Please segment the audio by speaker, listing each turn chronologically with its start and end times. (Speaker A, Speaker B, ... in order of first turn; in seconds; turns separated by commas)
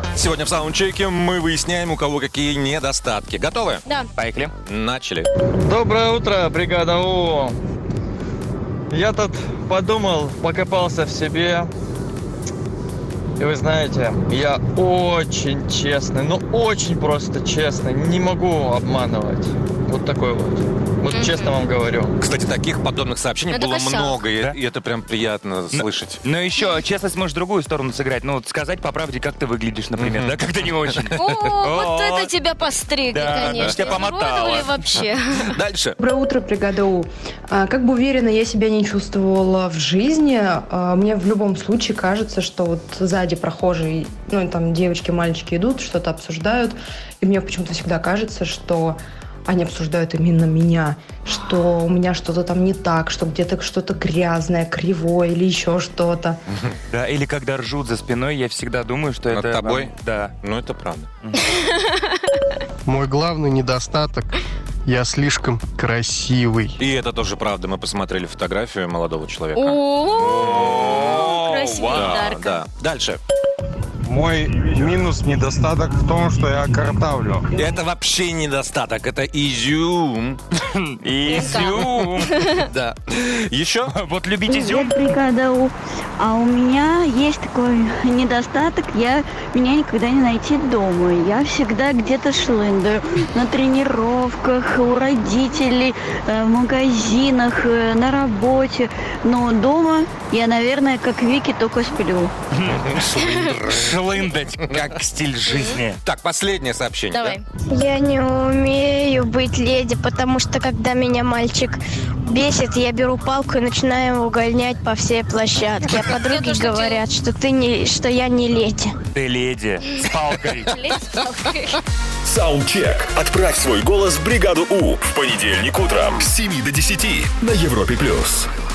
Speaker A: 0.1-3.8, Speaker B: 4.2-4.5, Speaker A: 4.7-5.3, Speaker C: 5.7-7.5, Speaker C: 8.9-11.7, Speaker C: 13.4-22.1, Speaker D: 21.1-21.5, Speaker A: 22.2-26.2, Speaker D: 23.5-24.2, Speaker B: 25.7-32.4, Speaker A: 30.0-31.6, Speaker D: 31.2-35.5, Speaker B: 33.1-34.8, Speaker A: 33.5-35.9, Speaker E: 36.0-56.4, Speaker B: 56.9-60.3, Speaker A: 59.3-61.1, Speaker F: 62.9-64.3, Speaker F: 64.8-66.8, Speaker A: 66.8-69.8, Speaker D: 69.5-72.6, Speaker B: 70.3-72.1, Speaker A: 71.9-73.2, Speaker G: 74.1-77.4, Speaker A: 77.5-80.4, Speaker B: 80.8-82.4, Speaker D: 81.2-82.6, Speaker A: 81.5-83.9, Speaker B: 83.9-84.9, Speaker H: 84.5-102.3, Speaker B: 102.5-103.0, Speaker A: 102.7-104.1, Speaker D: 103.1-103.6, Speaker B: 103.7-106.0, Speaker A: 104.6-105.0, Speaker D: 105.5-105.8, Speaker A: 106.0-107.4, Speaker D: 107.1-107.4, Speaker I: 107.7-118.9, Speaker D: 115.7-117.0, Speaker B: 119.1-120.7, Speaker D: 120.7-121.8, Speaker J: 122.2-128.5